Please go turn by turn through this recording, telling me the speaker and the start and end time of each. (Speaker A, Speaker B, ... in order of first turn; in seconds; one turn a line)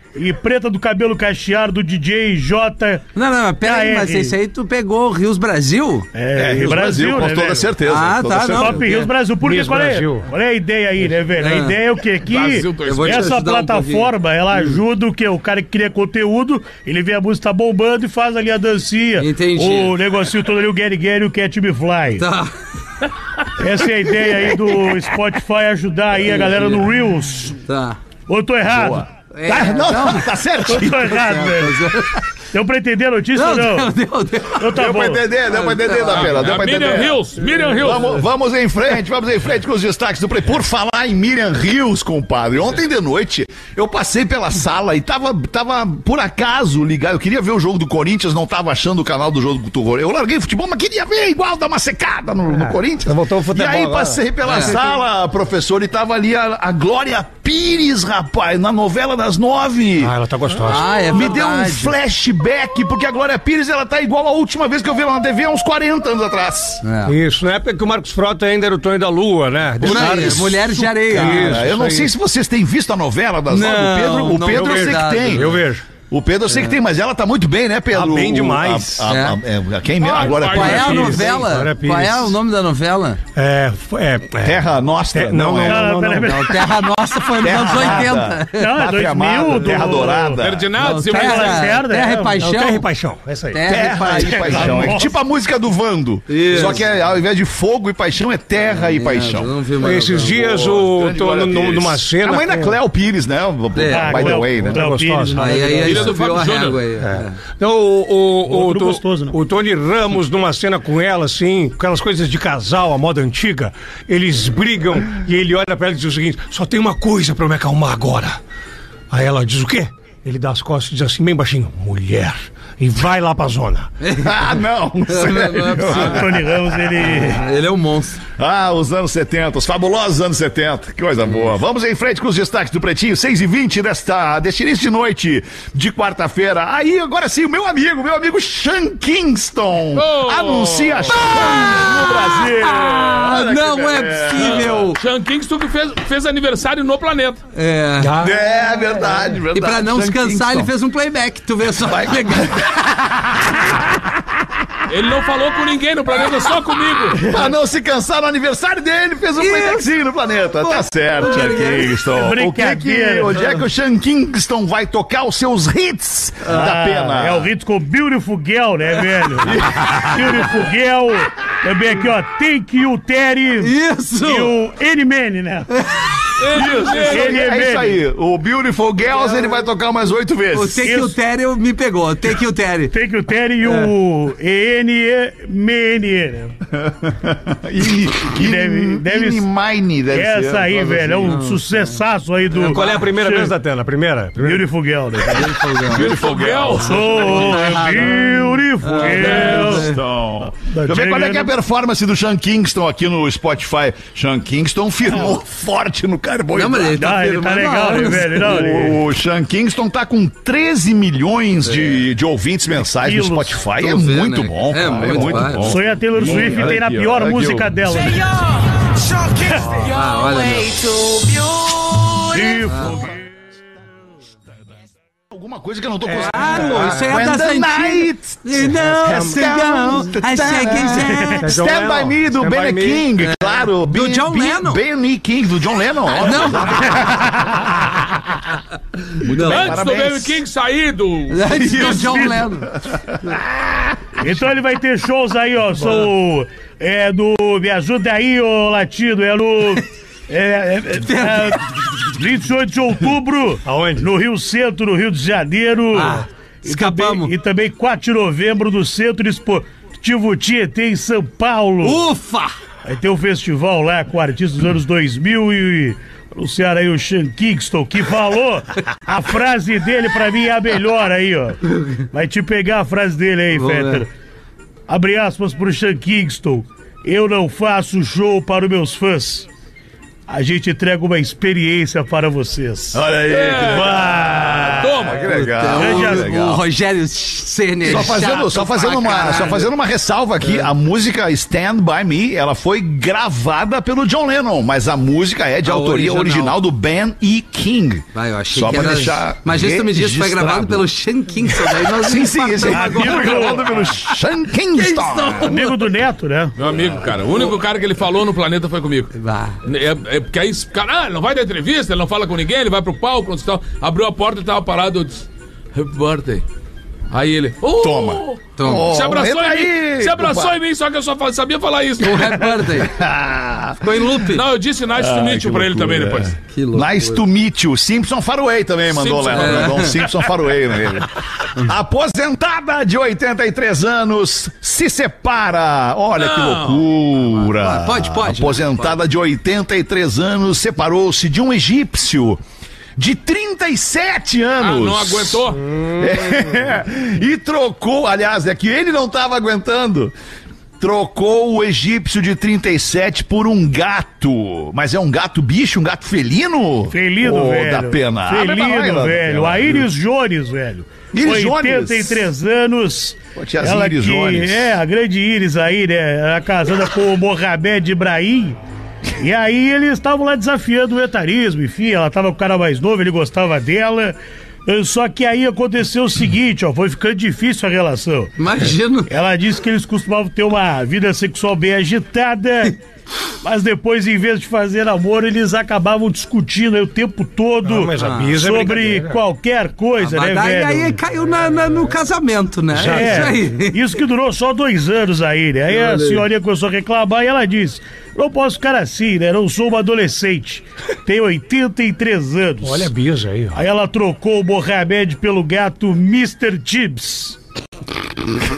Speaker A: 0.1-3.1
Speaker B: 3.1-6.1
Speaker A: 3.6-4.3
Speaker A: 6.1-7.7
Speaker C: 6.3-8.8
Speaker B: 7.9-9.1
Speaker A: 8.5-22.2
Speaker D: 9.4-10.3
Speaker B: 11.4-11.8
Speaker E: 12.2-13.3
Speaker B: 12.8-14.8
Speaker B: 19.2-20.0
Speaker B: 22.2-22.5
Speaker A: 23.6-27.6
Speaker B: 24.2-25.0
Speaker B: 26.2-26.9
Speaker B: 27.6-28.0
Speaker A: 28.3-29.1
Speaker C: 28.7-31.2
Speaker B: 29.3-30.3
Speaker A: 30.6-32.0
Speaker B: 30.9-32.2
Speaker A: 32.5-33.9
Speaker B: 33.3-34.7
Speaker A: 34.5-35.2
Speaker C: 34.7-37.2
Speaker B: 35.5-36.5
Speaker E: 36.0-38.2
Speaker C: 37.8-60.1
Speaker D: 52.5-54.7
Speaker B: 54.4-54.8
Speaker D: 60.0-61.2
Speaker B: 60.6-61.9
Speaker C: 60.8-66.8
Speaker B: 66.8-67.2
Speaker D: 67.0-72.1
Speaker C: 69.8-75.6
Speaker B: 69.8-71.7
Speaker B: 73.5-75.6
Speaker D: 74.4-75.8
Speaker C: 76.1-81.5
Speaker B: 76.5-76.8
Speaker D: 77.9-79.1
Speaker B: 79.1-79.4
Speaker E: 80.0-81.3
Speaker B: 80.2-83.2
Speaker D: 80.6-82.4
Speaker D: 83.3-84.6
Speaker C: 84.4-85.9
Speaker D: 85.1-86.5
Speaker A: 85.6-86.6
Speaker B: 86.2-88.7
Speaker C: 87.4-90.7
Speaker A: 88.5-90.4
Speaker E: 90.4-91.8
Speaker B: 90.8-92.9
Speaker A: 90.9-92.4
Speaker D: 92.3-93.6
Speaker B: 93.5-95.0
Speaker C: 93.6-99.5
Speaker D: 94.3-94.9
Speaker A: 94.5-95.1
Speaker B: 96.3-96.8
Speaker B: 98.7-100.7
Speaker D: 99.8-102.8
Speaker C: 100.4-104.8
Speaker B: 103.7-104.4
Speaker A: 103.9-105.8
Speaker D: 104.3-106.1
Speaker B: 105.3-107.4
Speaker E: 105.8-106.8
Speaker D: 107.0-118.4
Speaker A: 108.5-109.4
Speaker D: 119.1-123.9
Speaker B: 124.0-124.5
Speaker C: 124.2-127.0
Speaker B: 125.1-126.3
Speaker A: 125.8-127.5
Speaker B: 127.0-128.2
Speaker C: 128.4-144.9
Speaker E: 139.9-141.8
Speaker B: 141.5-145.0
Speaker E: 144.3-147.4
Speaker B: 147.5-148.2
Speaker D: 148.0-148.4
Speaker C: 148.2-150.7
Speaker B: 149.5-153.1
Speaker C: 151.8-154.7
Speaker E: 154.9-157.3
Speaker C: 157.1-167.5
Speaker B: 159.4-159.9
Speaker B: 160.6-162.0
Speaker A: 162.1-163.4
Speaker A: 166.5-175.7
Speaker C: 169.4-170.5
Speaker B: 173.6-174.5
Speaker B: 175.8-176.2
Speaker E: 176.4-177.4
Speaker C: 176.5-181.0
Speaker A: 177.0-178.0
Speaker B: 179.1-179.5
Speaker B: 180.5-182.9
Speaker A: 180.8-181.2
Speaker A: 182.9-186.6
Speaker C: 186.7-191.4
Speaker A: 188.3-189.5
Speaker A: 190.1-193.5
Speaker B: 191.2-191.9
Speaker D: 192.5-194.7
Speaker A: 194.4-195.6
Speaker B: 195.2-196.2
Speaker C: 195.8-197.2
Speaker E: 195.9-197.8
Speaker A: 196.7-199.9
Speaker B: 197.0-200.0
Speaker C: 199.1-207.0
Speaker E: 199.1-199.7
Speaker A: 200.5-201.5
Speaker B: 206.5-208.7
Speaker A: 206.9-209.0
Speaker C: 208.4-218.0
Speaker B: 211.6-212.0
Speaker A: 213.0-213.6
Speaker B: 213.8-215.8
Speaker A: 215.6-218.3
Speaker B: 219.8-222.0
Speaker A: 222.2-223.2
Speaker B: 222.6-223.0
Speaker C: 225.3-238.6
Speaker D: 226.1-227.1
Speaker B: 226.2-231.5
Speaker D: 228.7-229.8
Speaker D: 231.4-233.1
Speaker B: 233.1-234.8
Speaker B: 236.1-237.1
Speaker C: 239.2-240.4
Speaker B: 239.2-239.8
Speaker E: 239.3-242.3
Speaker B: 241.3-242.7
Speaker A: 241.7-242.5
Speaker C: 242.7-243.9
Speaker A: 244.2-262.0
Speaker B: 251.1-252.1
Speaker D: 253.6-254.1
Speaker B: 255.9-257.3
Speaker B: 261.8-262.5
Speaker A: 262.8-274.1
Speaker B: 273.5-274.0
Speaker A: 274.9-279.5
Speaker A: 280.3-283.0
Speaker C: 282.9-286.6
Speaker E: 283.3-284.1
Speaker A: 283.7-284.9
Speaker E: 284.7-285.3
Speaker B: 285.2-289.7
Speaker A: 285.7-286.3
Speaker C: 287.8-300.9
Speaker B: 290.4-290.7
Speaker B: 295.6-296.6
Speaker B: 298.1-304.2
Speaker C: 301.4-305.6
Speaker A: 302.6-303.7
Speaker B: 304.7-305.9
Speaker A: 305.4-306.6
Speaker E: 306.6-316.4
Speaker B: 309.1-309.6
Speaker E: 317.1-322.7
Speaker C: 317.8-320.6
Speaker B: 318.6-318.9
Speaker B: 322.0-323.0
Speaker C: 322.7-324.1
Speaker B: 323.8-324.4
Speaker E: 324.2-326.4
Speaker C: 324.9-342.4
Speaker B: 326.5-327.2
Speaker E: 328.9-330.0
Speaker B: 329.3-330.1
Speaker E: 336.1-336.9
Speaker B: 337.4-339.0
Speaker C: 343.0-350.1
Speaker E: 344.6-345.6
Speaker C: 350.8-359.9
Speaker A: 356.9-368.6
Speaker C: 361.1-362.3
Speaker C: 363.3-364.7
Speaker A: 369.1-378.3
Speaker B: 378.4-379.1
Speaker A: 379.1-382.8
Speaker A: 383.4-391.0
Speaker D: 387.6-389.2
Speaker B: 388.0-388.4
Speaker B: 390.0-393.8
Speaker D: 392.7-393.4
Speaker A: 392.8-402.9
Speaker B: 395.7-396.2
Speaker D: 402.6-403.6
Speaker A: 403.5-407.4